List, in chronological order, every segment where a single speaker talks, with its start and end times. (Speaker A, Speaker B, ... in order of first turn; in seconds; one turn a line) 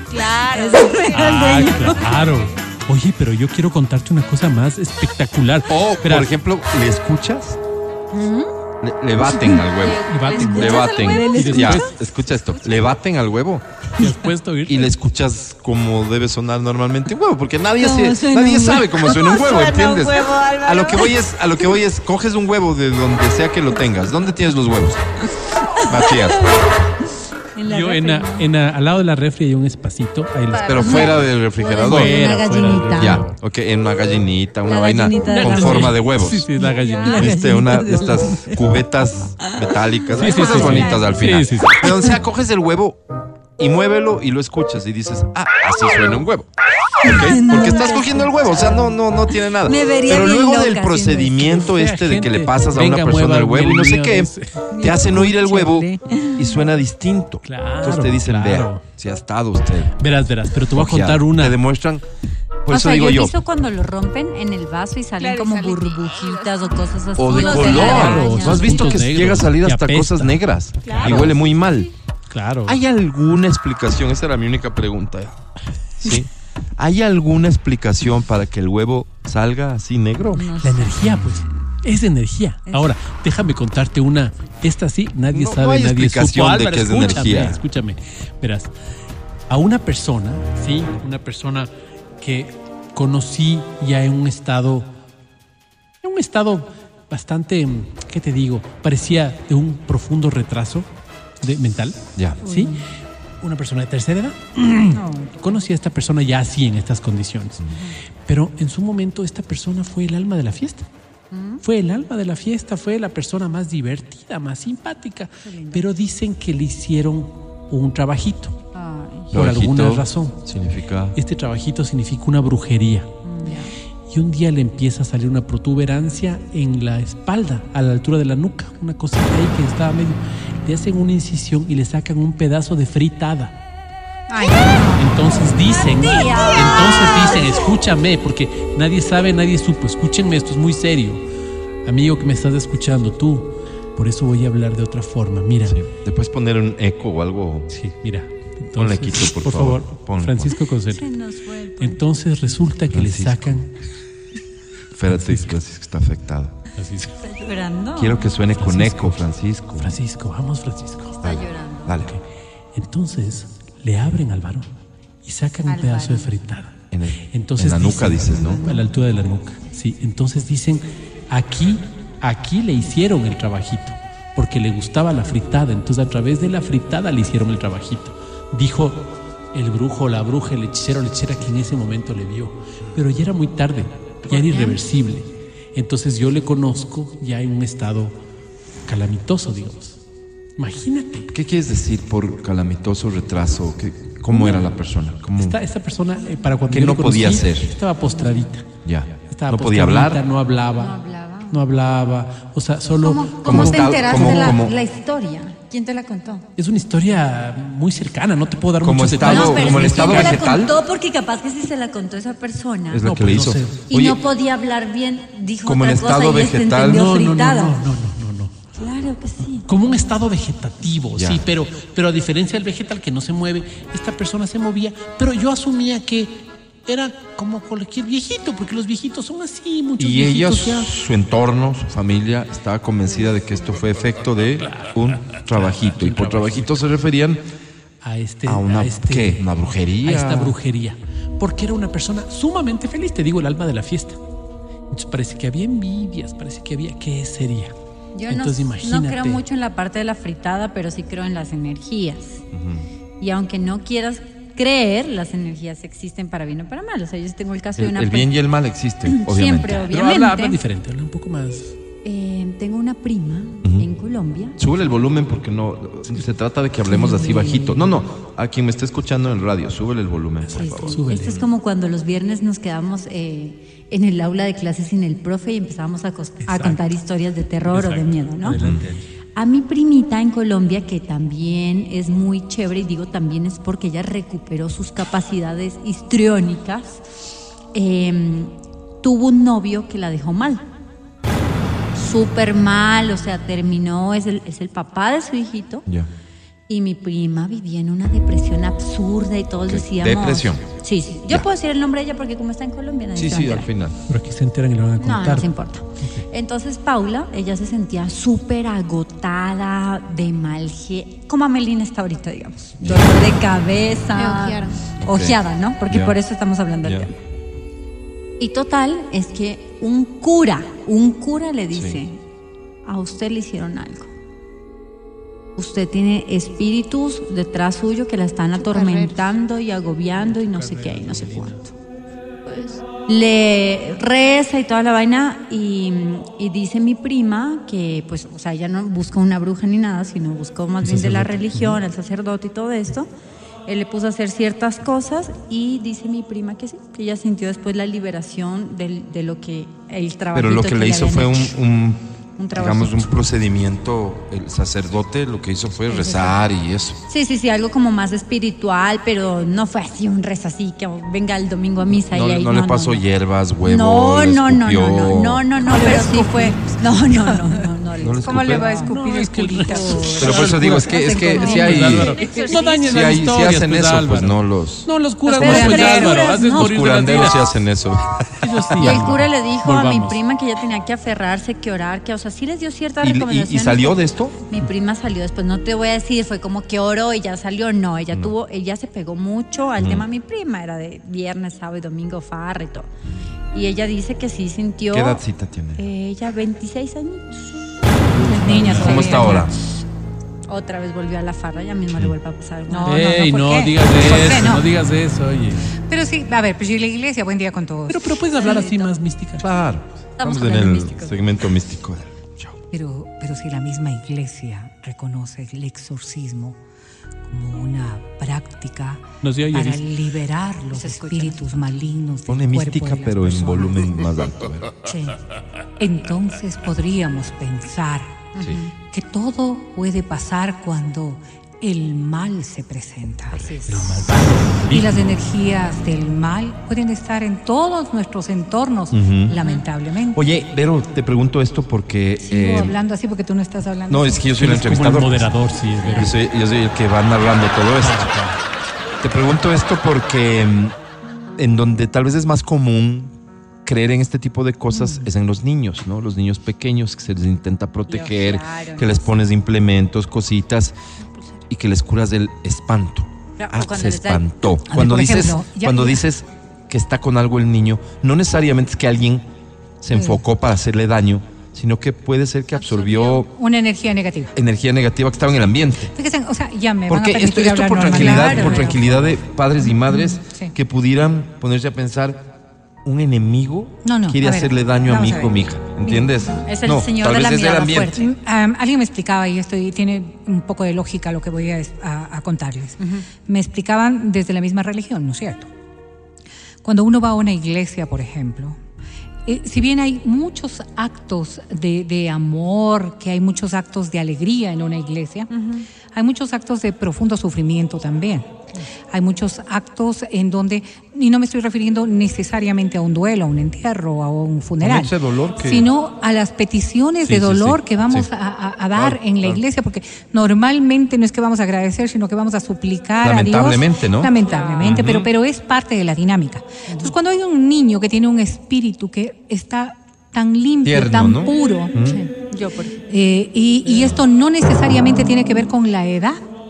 Speaker A: 0.1-1.9
Speaker B: 0.5-2.3
Speaker C: 1.1-6.3
Speaker D: 5.7-7.6
Speaker B: 8.1-8.5
Speaker D: 8.8-13.6
Speaker B: 9.3-11.9
Speaker A: 9.8-11.6
Speaker C: 10.1-11.9
Speaker A: 12.3-12.6
Speaker C: 14.0-14.9
Speaker D: 14.7-25.1
Speaker B: 17.8-19.5
Speaker A: 19.2-21.1
Speaker B: 25.8-26.6
Speaker D: 25.9-26.6
Speaker B: 27.6-28.5
Speaker C: 27.7-31.1
Speaker B: 30.6-33.2
Speaker D: 30.7-32.1
Speaker C: 31.8-33.3
Speaker D: 32.9-36.5
Speaker B: 34.6-36.0
Speaker C: 35.2-37.4
Speaker B: 36.6-38.6
Speaker D: 37.1-43.0
Speaker C: 40.2-41.9
Speaker B: 40.2-40.9
Speaker A: 40.2-41.1
Speaker B: 41.9-42.1
Speaker D: 43.6-46.5
Speaker D: 47.0-60.0
Speaker B: 47.0-48.9
Speaker B: 49.6-51.7
Speaker C: 51.7-54.6
Speaker B: 54.7-56.5
Speaker C: 57.5-58.8
Speaker C: 60.0-61.6
Speaker D: 60.7-62.0
Speaker D: 62.6-63.4
Speaker B: 62.7-69.0
Speaker A: 65.2-68.6
Speaker D: 67.2-71.9
Speaker C: 67.6-71.3
Speaker A: 70.8-71.3
Speaker C: 72.3-72.8
Speaker D: 72.7-80.5
Speaker B: 80.3-81.5
Speaker C: 80.6-88.7
Speaker B: 82.7-82.9
Speaker D: 85.3-87.6
Speaker C: 89.5-91.7
Speaker C: 92.2-94.9
Speaker C: 96.0-100.9
Speaker C: 101.4-102.8
Speaker B: 102.4-102.9
Speaker C: 103.4-107.7
Speaker B: 104.9-105.6
Speaker C: 108.3-110.9
Speaker B: 111.3-111.6
Speaker C: 111.6-118.6
Speaker B: 115.5-115.8
Speaker B: 118.7-119.3
Speaker D: 119.3-121.2
Speaker C: 119.3-120.5
Speaker C: 121.1-133.6
Speaker B: 123.2-123.7
Speaker B: 134.3-137.5
Speaker C: 135.0-141.2
Speaker C: 141.8-145.8
Speaker D: 145.7-147.7
Speaker C: 147.7-151.1
Speaker D: 148.8-150.6
Speaker B: 150.9-152.0
Speaker C: 151.8-153.8
Speaker D: 152.9-153.7
Speaker D: 155.0-156.6
Speaker C: 155.1-155.6
Speaker C: 156.8-157.1
Speaker B: 157.2-158.4
Speaker D: 158.0-160.0
Speaker C: 158.6-159.2
Speaker C: 159.8-161.2
Speaker B: 161.2-162.0
Speaker D: 161.2-162.1
Speaker C: 162.8-164.7
Speaker C: 165.2-166.7
Speaker B: 165.7-166.4
Speaker D: 166.9-168.6
Speaker C: 167.2-188.2
Speaker B: 168.3-168.9
Speaker B: 184.3-184.8
Speaker C: 188.9-190.0
Speaker C: 190.6-191.3
Speaker D: 191.3-195.6
Speaker C: 194.3-194.7
Speaker C: 195.4-198.6
Speaker D: 196.7-197.8
Speaker B: 198.0-198.5
Speaker D: 198.8-200.2
Speaker C: 199.3-201.0
Speaker B: 200.8-201.6
Speaker C: 201.5-204.6
Speaker B: 203.0-206.5
Speaker D: 203.4-204.8
Speaker C: 206.6-210.4
Speaker D: 208.8-210.8
Speaker B: 209.2-213.1
Speaker D: 212.9-214.2
Speaker C: 213.0-213.9
Speaker B: 213.9-217.9
Speaker D: 215.6-217.1
Speaker C: 216.9-218.5
Speaker B: 218.7-219.9
Speaker C: 219.7-230.9
Speaker D: 221.1-221.4
Speaker D: 230.0-237.4
Speaker C: 234.6-236.8
Speaker C: 238.0-244.2
Speaker D: 238.5-240.6
Speaker C: 244.9-247.7
Speaker B: 248.1-252.4
Speaker C: 248.3-249.4
Speaker D: 252.5-252.9
Speaker B: 253.2-258.3
Speaker D: 257.8-260.0
Speaker B: 259.1-260.6
Speaker C: 259.9-261.7
Speaker B: 262.0-264.6
Speaker D: 263.6-263.9
Speaker D: 264.6-271.3
Speaker B: 266.9-268.0
Speaker B: 270.5-278.6
Speaker C: 270.8-271.4
Speaker C: 276.4-276.8
Speaker C: 277.7-279.0
Speaker D: 278.6-278.9
Speaker B: 279.4-287.0
Speaker B: 287.7-290.7
Speaker B: 291.9-295.9
Speaker B: 296.7-303.7
Speaker D: 299.6-300.6
Speaker D: 303.1-304.0
Speaker C: 304.1-306.2
Speaker B: 305.0-317.1
Speaker D: 312.8-313.2
Speaker E: 314.2-314.6
Speaker D: 315.0-315.4
Speaker D: 315.9-316.2
Speaker D: 316.8-317.1
Speaker B: 318.4-322.2
Speaker D: 321.7-322.0
Speaker B: 322.8-324.1
Speaker B: 325.6-331.7
Speaker E: 328.6-329.3
Speaker C: 330.1-331.6
Speaker B: 332.5-343.1
Speaker C: 340.8-341.8
Speaker B: 343.7-351.6
Speaker D: 350.3-352.0
Speaker B: 352.4-353.1
Speaker D: 352.6-357.0
Speaker B: 355.8-356.4
Speaker B: 357.1-363.0
Speaker D: 361.9-365.5
Speaker B: 363.6-368.8
Speaker E: 365.6-367.7
Speaker D: 368.0-368.7
Speaker E: 368.2-372.6
Speaker C: 368.8-377.5
Speaker B: 369.7-370.1
Speaker D: 370.2-372.2
Speaker B: 371.1-372.6
Speaker A: 372.0-372.8
Speaker D: 372.7-374.9
Speaker E: 375.3-376.1
Speaker B: 375.3-376.7
Speaker D: 375.4-379.0
Speaker C: 378.4-380.2
Speaker B: 378.8-392.9
Speaker D: 383.0-384.4
Speaker D: 389.8-390.1
Speaker B: 393.5-395.2
Speaker D: 394.9-395.8
Speaker B: 395.8-399.7
Speaker C: 398.1-398.9
Speaker E: 398.3-399.5
Speaker D: 398.5-399.5
Speaker B: 400.5-403.1
Speaker E: 402.7-404.7
Speaker C: 402.9-405.6
Speaker E: 405.9-408.8
Speaker C: 407.9-409.5
Speaker B: 408.4-408.9
Speaker D: 409.4-412.6
Speaker B: 410.2-411.2
Speaker E: 412.7-416.6
Speaker E: 417.3-423.8
Speaker C: 419.2-419.8
Speaker B: 420.7-421.4
Speaker D: 422.3-424.8
Speaker B: 424.9-425.2
Speaker E: 425.8-428.3
Speaker B: 428.3-428.7
Speaker D: 428.4-428.6
Speaker E: 428.9-440.2
Speaker C: 433.7-435.2
Speaker D: 438.9-439.4
Speaker B: 439.3-439.6
Speaker D: 440.1-442.8
Speaker E: 442.2-444.3
Speaker D: 443.9-448.1
Speaker C: 444.3-446.1
Speaker C: 447.8-448.4
Speaker D: 449.0-450.8
Speaker D: 451.4-453.1
Speaker D: 453.6-460.8
Speaker B: 457.9-459.2
Speaker D: 461.5-469.2
Speaker B: 463.4-464.5
Speaker E: 464.7-466.0
Speaker D: 469.8-473.3
Speaker E: 469.9-470.2
Speaker B: 472.6-473.2
Speaker E: 473.2-474.3
Speaker D: 474.4-475.9
Speaker E: 475.9-478.8
Speaker D: 476.9-482.3
Speaker B: 477.9-479.1
Speaker E: 479.9-480.5
Speaker D: 482.9-488.0
Speaker E: 483.8-485.4
Speaker B: 485.9-488.0
Speaker E: 488.0-495.5
Speaker B: 492.8-493.1
Speaker E: 496.6-498.6
Speaker E: 499.3-508.3
Speaker B: 505.3-505.7
Speaker E: 508.9-531.8
Speaker D: 514.6-515.7
Speaker D: 517.0-518.1
Speaker D: 518.7-519.4
Speaker D: 523.0-525.1
Speaker B: 524.2-524.9
Speaker B: 526.7-526.9
Speaker D: 530.6-532.0
Speaker B: 531.8-532.8
Speaker E: 532.9-536.2